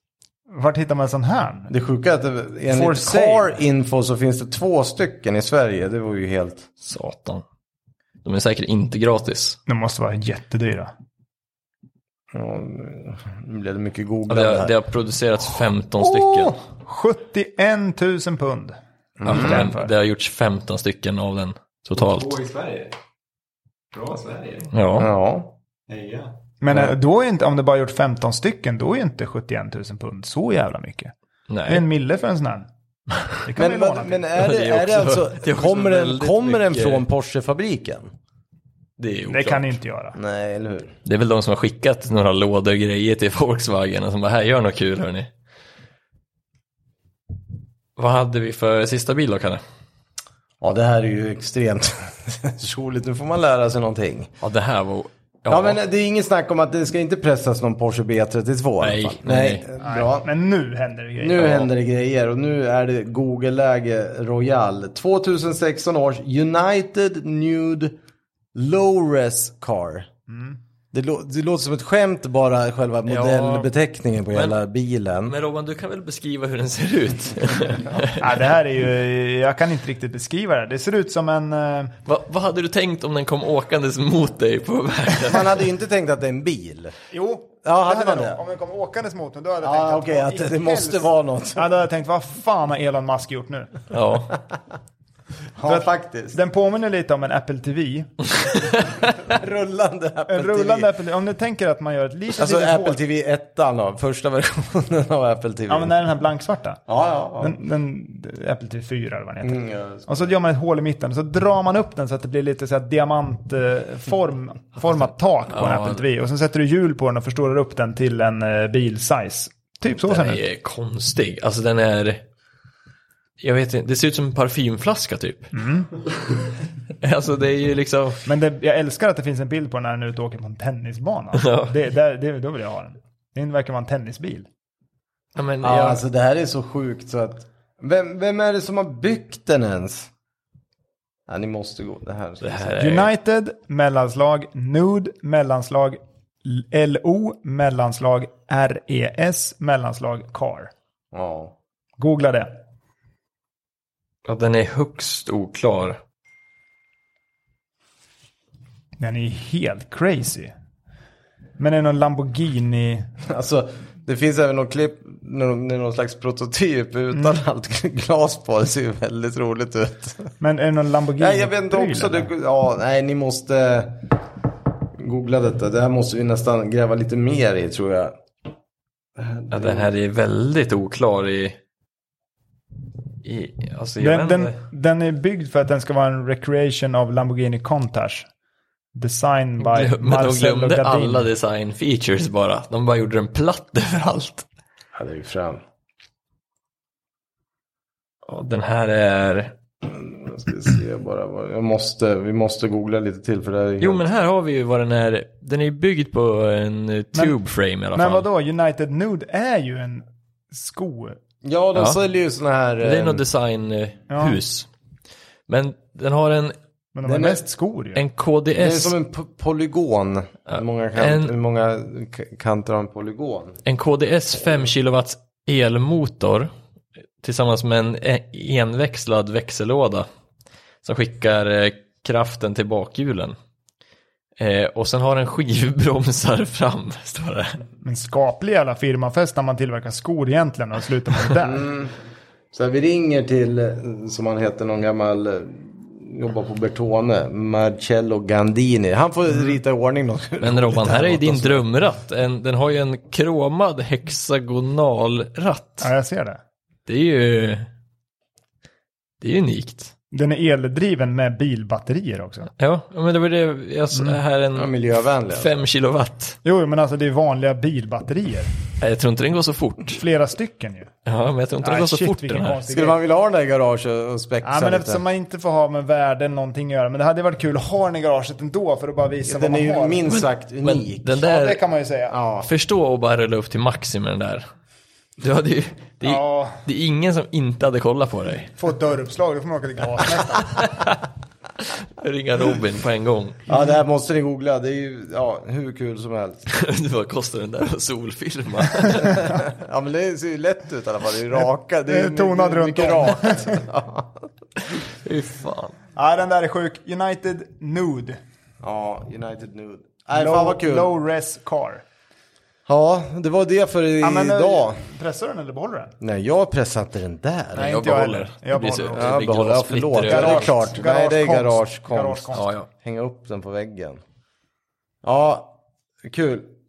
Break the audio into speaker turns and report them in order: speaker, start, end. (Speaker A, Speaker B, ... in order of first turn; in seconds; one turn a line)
Speaker A: 0.5-1.7
Speaker B: 1.7-6.7
Speaker A: 2.7-3.5
Speaker C: 6.8-7.4
Speaker C: 8.2-9.6
Speaker A: 9.7-10.9
Speaker B: 12.3-14.7
Speaker C: 14.3-16.6
Speaker A: 16.0-19.9
Speaker B: 19.2-19.6
Speaker C: 19.2-22.3
Speaker D: 21.9-22.9
Speaker D: 23.9-24.7
Speaker C: 24.7-25.1
Speaker B: 25.0-25.5
Speaker D: 25.9-26.3
Speaker A: 26.6-31.1
Speaker C: 31.5-31.9
Speaker A: 31.7-32.7
Speaker A: 33.4-34.3
Speaker B: 33.5-38.1
Speaker C: 34.4-37.0
Speaker C: 39.0-39.7
Speaker A: 39.3-40.2
Speaker B: 40.1-40.9
Speaker C: 41.0-45.3
Speaker C: 48.0-49.6
Speaker B: 50.6-54.3
Speaker C: 54.4-55.8
Speaker B: 55.5-60.3
Speaker C: 58.8-59.6
Speaker A: 59.8-61.6
Speaker B: 61.2-68.0
Speaker B: 68.5-70.1
Speaker A: 70.3-70.6
Speaker B: 70.9-75.3
Speaker C: 73.1-73.7
Speaker C: 75.2-78.3
Speaker A: 78.2-81.9
Speaker C: 82.0-85.6
Speaker B: 85.2-87.0
Speaker A: 87.1-93.8
Speaker B: 87.6-88.4
Speaker B: 89.6-91.7
Speaker C: 93.9-94.3
Speaker B: 95.5-96.4
Speaker A: 95.6-98.2
Speaker B: 98.8-100.9
Speaker A: 100.3-103.0
Speaker B: 102.4-105.9
Speaker A: 105.7-106.8
Speaker B: 106.9-107.5
Speaker A: 107.4-120.4
Speaker B: 109.4-110.2
Speaker C: 115.5-116.0
Speaker C: 120.1-122.2
Speaker C: 123.4-125.5
Speaker A: 125.5-125.9
Speaker C: 127.0-128.2
Speaker A: 128.2-134.5
Speaker C: 131.4-131.7
Speaker C: 135.3-136.0
Speaker B: 135.6-140.1
Speaker B: 141.3-142.8
Speaker C: 142.4-143.1
Speaker A: 142.8-150.7
Speaker B: 151.1-151.6
Speaker A: 152.0-152.5
Speaker C: 154.2-156.0
Speaker A: 159.0-160.5
Speaker A: 161.6-163.1
Speaker B: 163.2-170.3
Speaker A: 167.1-167.4
Speaker A: 170.4-172.3
Speaker B: 171.2-174.1
Speaker B: 175.0-178.1
Speaker B: 179.2-179.9
Speaker C: 179.5-181.6
Speaker C: 183.2-184.5
Speaker A: 184.0-188.3
Speaker A: 188.9-191.3
Speaker C: 189.6-194.4
Speaker B: 194.9-195.6
Speaker C: 198.2-199.5
Speaker B: 199.9-204.1
Speaker C: 203.8-208.2
Speaker A: 207.9-211.2
Speaker B: 211.4-213.2
Speaker C: 212.8-214.7
Speaker A: 214.1-214.4
Speaker C: 215.5-216.5
Speaker A: 216.9-218.0
Speaker B: 217.0-217.4
Speaker C: 217.9-218.9
Speaker B: 218.6-223.6
Speaker C: 220.5-221.3
Speaker C: 223.7-226.5
Speaker C: 227.2-230.1
Speaker C: 230.8-233.3
Speaker C: 234.4-237.6
Speaker A: 237.8-241.7
Speaker B: 241.4-241.9
Speaker B: 242.5-251.7
Speaker C: 250.4-255.9
Speaker A: 255.8-256.4
Speaker C: 256.9-257.7
Speaker C: 259.2-259.9
Speaker A: 260.1-262.5
Speaker C: 262.6-264.7
Speaker B: 264.5-265.5
Speaker C: 265.3-266.4
Speaker A: 266.4-268.5
Speaker C: 268.8-270.0
Speaker A: 269.9-270.9
Speaker C: 271.1-272.6
Speaker A: 271.6-273.0
Speaker B: 272.7-275.0
Speaker A: 274.4-280.1
Speaker B: 279.2-281.2
Speaker C: 280.1-281.6
Speaker A: 281.2-282.2
Speaker B: 282.1-282.5
Speaker C: 282.4-284.4
Speaker C: 285.2-288.5
Speaker A: 286.0-286.6
Speaker A: 288.6-290.6
Speaker C: 290.6-290.9
Speaker C: 291.9-293.4
Speaker B: 293.5-296.4
Speaker C: 296.5-299.2
Speaker B: 299.0-304.3
Speaker A: 301.9-303.6
Speaker C: 305.0-305.8
Speaker A: 305.9-308.2
Speaker B: 308.6-310.9
Speaker A: 310.1-311.8
Speaker B: 312.6-314.8
Speaker A: 314.0-315.9
Speaker B: 316.0-317.8
Speaker A: 317.5-319.2
Speaker C: 317.6-320.6
Speaker B: 318.9-324.0
Speaker A: 320.0-322.5
Speaker C: 322.3-322.7
Speaker B: 325.0-326.5